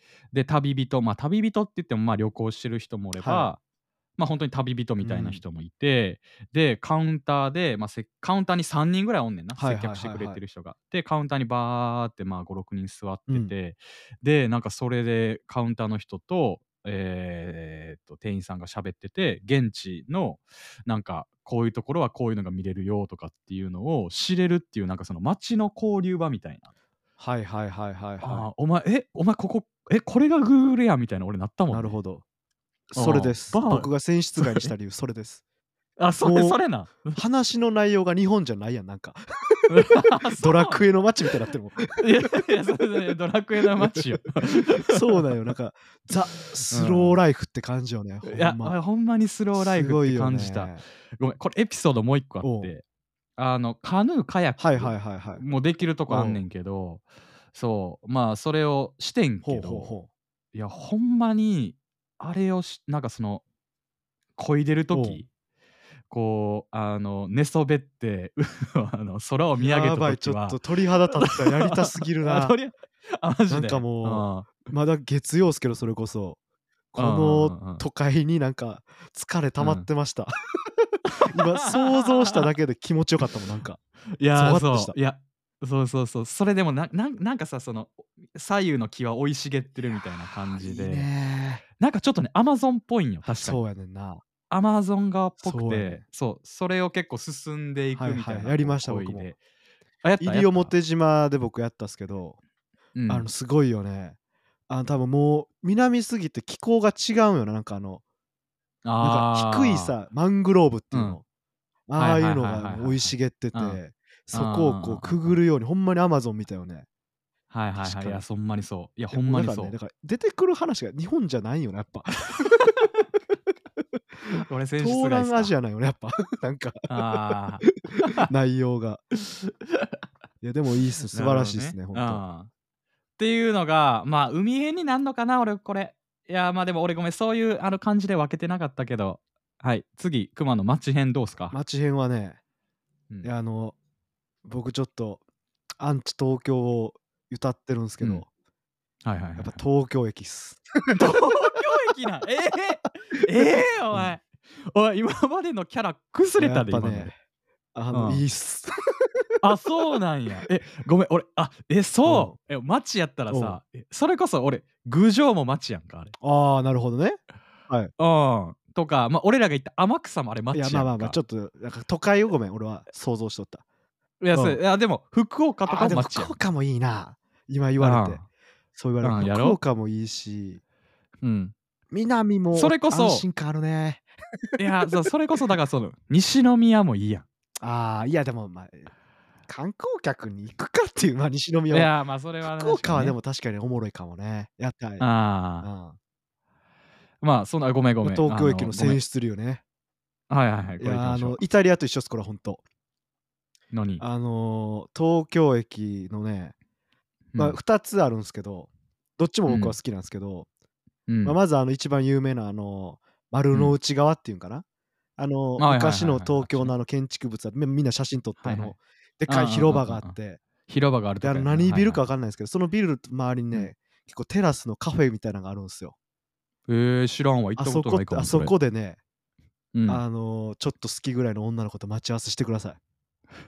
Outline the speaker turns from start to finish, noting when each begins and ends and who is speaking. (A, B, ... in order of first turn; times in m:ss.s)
0:00.3-0:03.6 A
0:03.2-0:03.5 B
0:04.2-0:26.7 A
0:05.0-0:05.4 B
0:09.6-0:10.4 B
0:27.2-0:28.5 B
0:28.2-0:32.0 A
0:31.7-0:32.2 B
0:32.9-0:35.4 B
0:32.9-0:34.7 A
0:36.0-0:37.2 A
0:36.2-0:39.7 B
0:39.7-0:40.9 A
0:40.4-0:42.1 B
0:42.0-0:45.2 A
0:44.8-0:48.8 B
0:46.7-0:47.2 A
0:48.2-0:52.8 A
0:49.6-0:50.8 B
0:52.4-0:52.7 B
0:53.4-0:59.9 A
0:54.6-0:55.4 B
0:56.1-0:56.4 B
0:59.4-1:00.1 B
1:00.5-1:03.4 A
1:04.4-1:05.3 A
1:04.9-1:05.2 B
1:06.1-1:10.6 A
1:09.6-1:12.6 B
1:11.2-1:14.6 A
1:13.5-1:16.4 B
1:16.9-1:20.3 B
1:17.0-1:17.8 A
1:19.6-1:19.9 A
1:21.1-1:22.4 A
1:21.3-1:23.8 B
1:24.2-1:31.1 A
1:24.3-1:25.0 B
1:30.5-1:31.6 B
1:31.8-1:33.6 A
1:33.3-1:34.2 B
1:34.5-1:39.4 A
1:35.4-1:36.0 B
1:38.0-1:39.3 B
1:40.0-1:40.7 A
1:40.2-1:42.4 B
1:43.0-1:43.3 A
1:43.1-1:44.2 B
1:44.7-1:48.0 B
1:48.8-1:49.9 A
1:49.0-1:51.2 B
1:50.9-1:51.2 A
1:51.9-1:56.9 B
1:52.0-1:53.8 A
1:54.3-1:55.4 A
1:57.5-1:59.8 A
1:57.8-1:58.2 B
1:59.1-2:02.5 B
2:02.4-2:02.9 A
2:04.3-2:06.9 B
2:04.3-2:05.5 A
2:06.9-2:08.3 A
2:07.6-2:09.0 B
2:09.3-2:09.9 A
2:10.4-2:12.2 B
2:11.1-2:12.5 A
2:13.2-2:21.6 A
2:21.5-2:22.4 B
2:23.2-2:23.8 B
2:24.4-2:25.2 B
2:25.8-2:28.3 B
2:29.0-2:29.6 A
2:29.4-2:31.1 B
2:30.9-2:37.1 A
2:36.4-2:37.2 B
2:37.8-2:39.2 B
2:37.9-2:38.2 A
2:39.4-2:46.2 A
2:42.0-2:42.4 B
2:43.3-2:43.6 B
2:46.2-2:47.9 B
2:48.0-2:51.2 A
2:50.5-2:53.6 B
2:54.2-2:56.4 A
2:54.3-2:54.6 B
2:55.7-3:00.6 B
2:57.8-2:58.2 A
2:59.0-2:59.6 A
3:01.2-3:01.5 A
3:01.9-3:04.6 B
3:02.5-3:03.3 A
3:04.6-3:07.3 A
3:07.6-3:08.9 B
3:09.5-3:15.1 B
3:11.7-3:13.2 A
3:15.0-3:15.7 A
3:15.6-3:16.0 B
3:17.2-3:19.0 A
3:18.0-3:19.6 B
3:20.3-3:21.4 A
3:20.8-3:22.6 B
3:23.7-3:24.0 A
3:24.0-3:26.6 B
3:27.3-3:27.6 A
3:27.4-3:30.5 B
3:29.5-3:29.8 A
3:31.1-3:31.4 A
3:31.2-3:34.6 B
3:35.2-3:40.4 B
3:35.6-3:36.7 A
3:38.4-3:40.2 A
3:40.7-3:42.0 A
3:41.2-3:46.0 B
3:46.7-3:48.6 A
3:47.6-3:49.0 B
3:49.8-3:50.0 A
3:49.9-3:52.8 B